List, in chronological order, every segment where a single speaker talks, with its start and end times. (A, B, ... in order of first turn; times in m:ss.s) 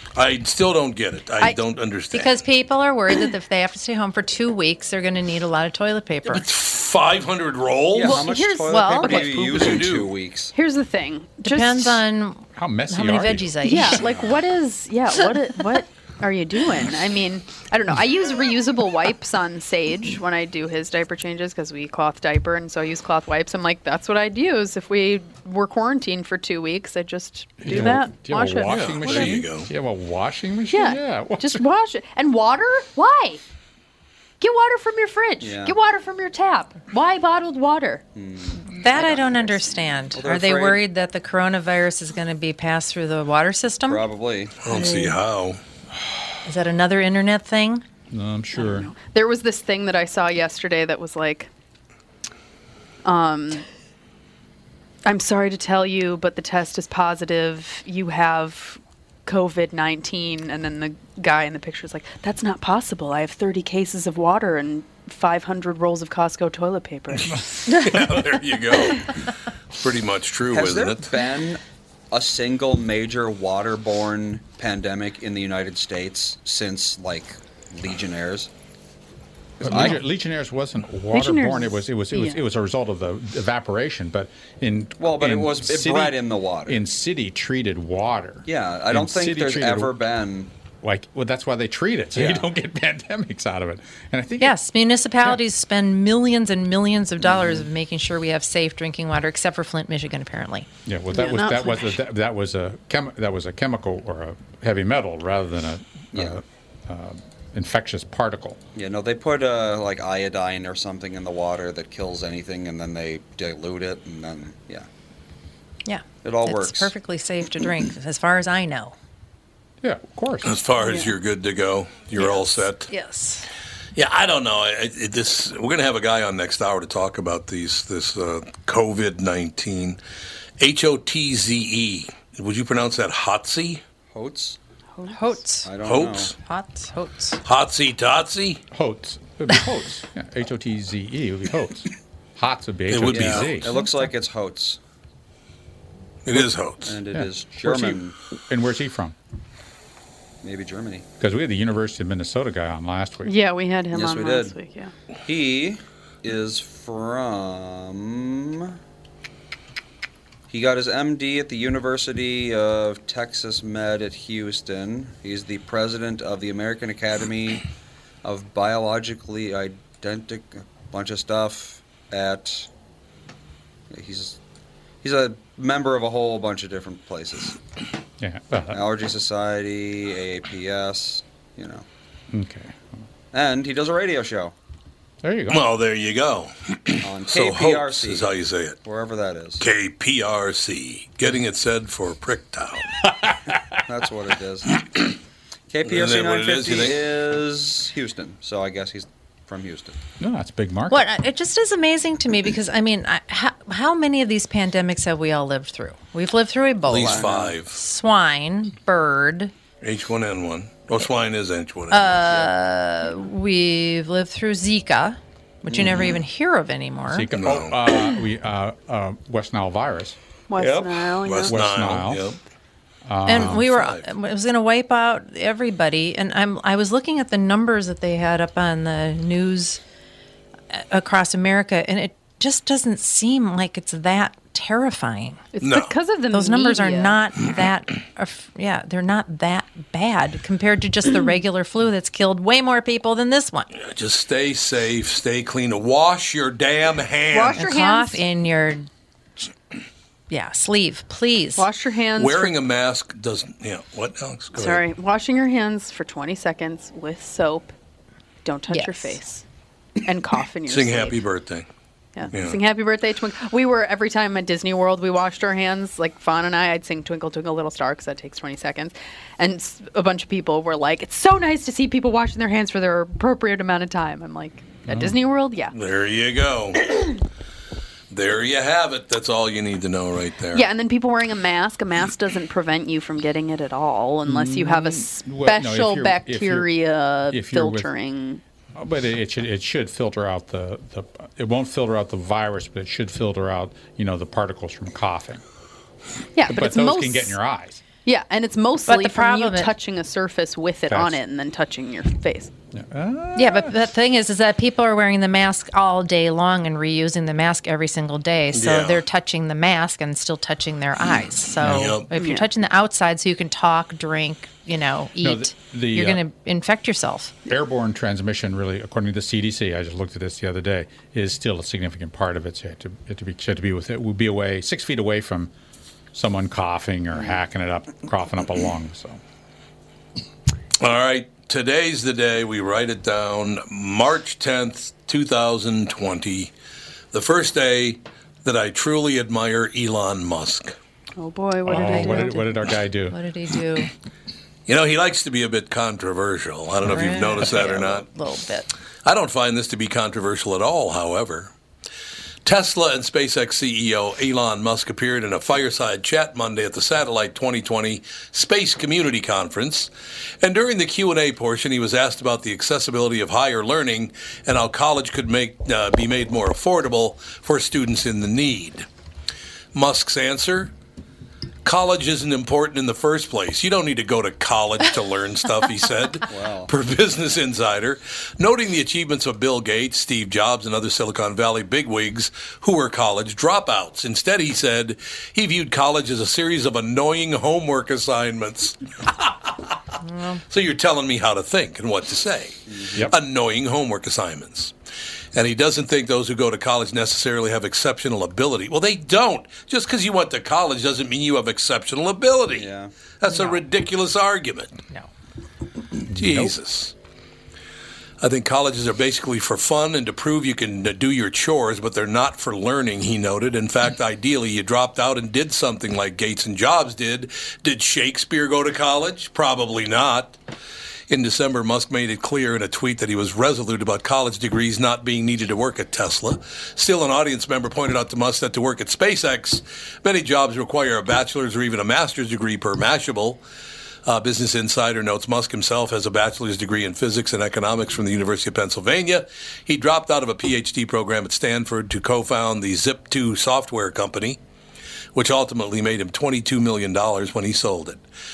0:00.2-0:02.4 A
0:02.1-0:06.5 B
0:06.3-0:08.4 A
0:07.9-0:10.5 C
0:08.0-0:09.9 D
0:08.9-0:10.1 A
0:10.5-0:12.0 D
0:11.4-0:14.1 B
0:12.6-0:13.5 E
0:13.6-0:29.4 D
0:14.0-0:14.4 C
0:27.6-0:31.6 E
0:28.7-0:29.7 A
0:30.7-0:33.4 D
0:34.4-0:38.1 D
0:35.4-0:35.8 C
0:38.1-0:40.8 C
0:38.7-0:44.1 B
0:43.9-0:44.6 C
0:44.6-0:45.6 A
0:44.7-0:45.2 B
0:46.4-0:47.8 B
0:48.1-0:48.9 E
0:48.6-0:51.5 D
0:53.0-0:53.6 D
0:55.0-1:07.4 D
1:07.2-1:11.2 A
1:10.5-1:18.5 C
1:19.6-1:20.0 C
1:19.6-1:29.9 E
1:21.1-1:22.4 D
1:25.0-1:26.8 C
1:28.5-1:30.5 C
1:30.8-1:34.6 E
1:32.2-1:32.5 C
1:34.4-1:40.7 B
1:37.2-1:37.7 C
1:40.9-1:48.6 E
1:41.1-1:42.0 D
1:46.1-1:46.4 C
1:48.8-1:54.9 C
1:55.8-1:59.0 B
1:56.2-1:56.9 C
1:59.8-2:00.6 E
2:00.4-2:02.9 A
2:02.2-2:03.5 D
2:04.0-2:10.0 A
2:10.6-2:13.8 A
2:14.1-2:14.6 C
2:15.0-2:15.4 D
2:15.1-2:15.7 B
2:15.6-2:16.4 C
2:15.8-2:16.4 A
2:16.4-2:17.4 B
2:17.4-2:18.6 A
2:18.7-2:23.7 E
2:22.9-2:23.7 A
2:23.1-2:24.8 C
2:23.7-2:24.1 D
2:26.3-2:27.0 A
2:26.4-2:28.2 C
2:27.1-2:29.2 E
2:30.4-2:31.1 C
2:31.2-2:33.3 E
2:33.2-2:34.9 D
2:33.9-2:34.6 C
2:35.2-2:38.8 C
2:40.5-2:47.7 C
2:48.2-2:52.7 C
2:53.9-2:54.4 C
2:55.0-2:57.6 C
2:58.2-2:58.9 E
2:58.7-3:01.9 C
3:02.3-3:02.8 E
3:03.3-3:04.5 C
3:05.2-3:05.6 E
3:05.5-3:08.8 A
3:07.0-3:08.3 C
3:08.8-3:09.7 C
3:09.6-3:13.1 A
3:13.9-3:15.1 C
3:15.7-3:20.0 C
3:15.8-3:17.1 A
3:20.2-3:21.1 E
3:20.9-3:29.5 B
3:26.9-3:27.8 A
3:26.9-3:27.6 C
3:29.8-3:32.3 A
3:31.9-3:37.3 B
3:32.3-3:32.5 C
3:35.7-3:36.2 C
3:37.1-3:40.2 E
3:37.3-3:37.8 A
3:40.5-3:41.6 D
3:40.6-3:40.9 C
3:41.2-3:42.4 A
3:41.5-3:42.3 E
3:43.1-3:43.7 E
3:43.3-3:49.8 B
3:43.3-3:44.1 A
3:50.7-3:55.4 B
3:55.5-3:57.2 D
3:55.6-3:56.0 A
3:56.3-4:03.7 B
4:03.8-4:07.6 A
4:07.3-4:08.2 D
4:07.6-4:08.9 B
4:10.3-4:11.7 B
4:11.6-4:12.5 D
4:12.2-4:14.8 A
4:14.5-4:17.7 D
4:18.4-4:19.4 D
4:18.7-4:19.2 B
4:20.0-4:21.2 D
4:20.7-4:21.7 A
4:22.2-4:35.7 D
4:22.3-4:22.6 A
4:34.9-4:35.1 E
4:35.7-4:37.2 A
4:38.1-4:40.7 A
4:40.5-4:48.4 D
4:44.3-4:46.7 E
4:47.3-4:47.9 E
4:48.8-4:55.4 E
4:56.4-4:57.4 D
4:56.5-4:57.8 E
4:58.0-5:02.5 D
4:58.9-4:59.7 B
5:00.9-5:01.2 E
5:02.7-5:03.7 E
5:03.4-5:17.3 B
5:08.5-5:09.0 A
5:11.6-5:12.0 E
5:11.6-5:12.1 A
5:12.1-5:12.5 D
5:15.2-5:16.2 E
5:17.5-5:25.5 E
5:26.1-5:29.2 E
5:30.8-5:36.5 A
5:37.1-5:40.8 A
5:41.2-5:42.4 D
5:41.7-5:42.5 B
5:41.7-5:43.2 E
5:43.1-5:43.9 B
5:44.7-5:48.1 A
5:46.8-5:48.7 B
5:49.0-5:51.5 A
5:52.4-5:59.9 A
6:00.4-6:08.9 A
6:09.7-6:10.7 A
6:11.6-6:29.7 A
6:16.3-6:16.7 C
6:30.0-6:30.4 B
6:30.5-6:34.7 A
6:32.7-6:33.1 C
6:35.3-6:44.7 A
6:42.6-6:42.9 C
6:43.3-6:43.6 B
6:46.1-6:46.5 E
6:46.1-6:46.9 A
6:48.2-7:00.4 A
7:01.1-7:13.4 A
7:14.0-7:24.4 A
7:25.1-7:28.0 A